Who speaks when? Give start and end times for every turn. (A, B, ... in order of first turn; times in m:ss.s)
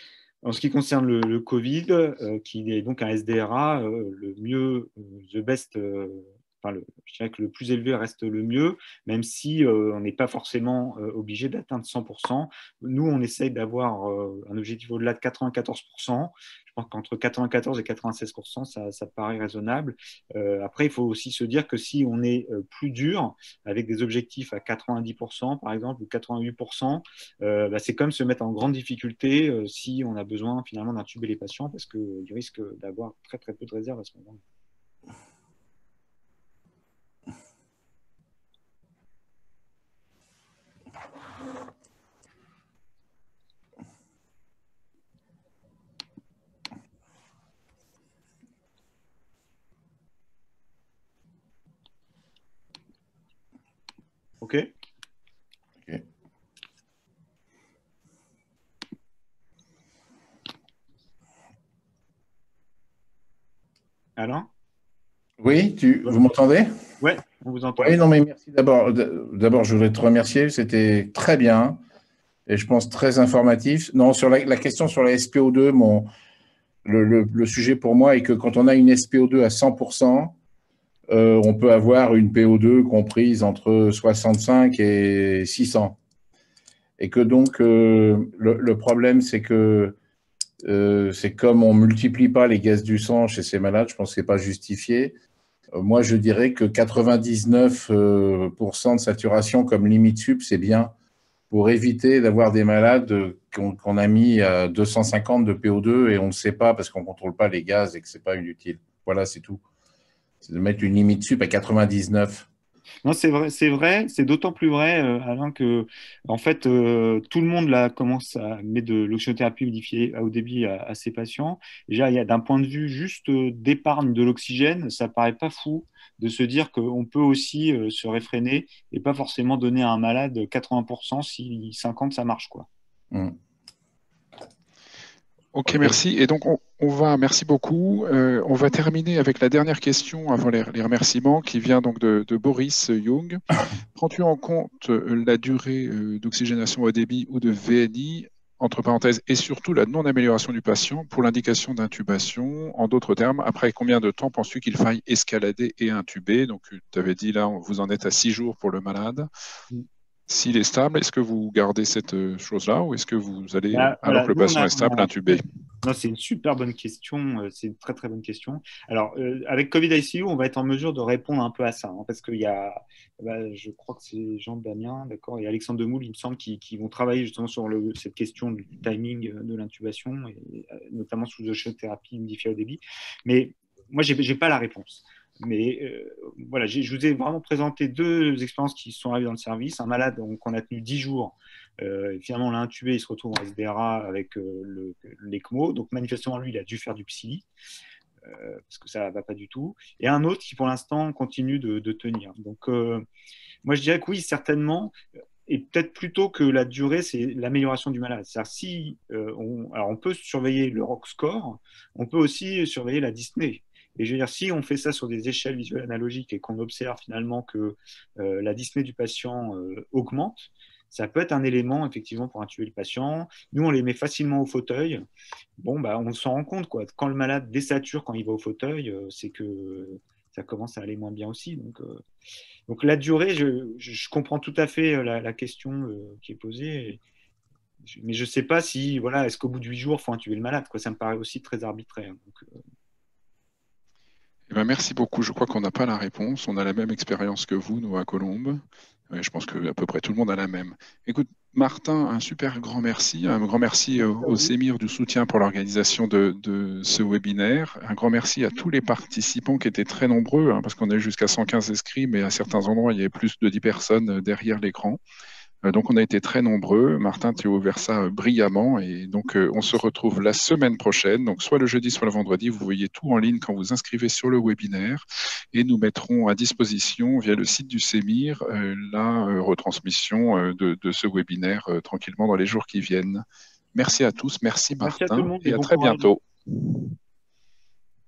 0:00.4-0:34.4 A
0:54.4-0:54.6 A
1:04.2-1:04.5 A
1:05.4-1:06.8 B
1:07.0-1:08.0 A
1:07.8-1:11.8 B
1:12.5-1:16.1 B
1:16.8-1:20.4 B
1:21.1-1:26.0 B
1:27.0-1:30.0 B
1:30.6-1:35.2 B
1:35.7-1:40.9 B
1:41.5-1:49.6 B
1:50.4-1:52.5 B
1:53.0-2:12.7 A
2:13.1-2:13.4 B
2:15.5-2:23.4 C
2:15.7-2:16.0 B
2:23.9-2:39.3 C
2:40.3-2:45.4 C
2:43.7-3:17.4 A
3:18.2-3:23.0 A
3:23.6-3:24.9 A
3:25.4-3:45.0 A
3:45.6-3:52.0 A
3:52.7-3:57.0 A
3:57.8-4:02.6 A
4:04.5-4:25.0 C
4:25.6-4:46.9 C
4:44.8-4:46.1 A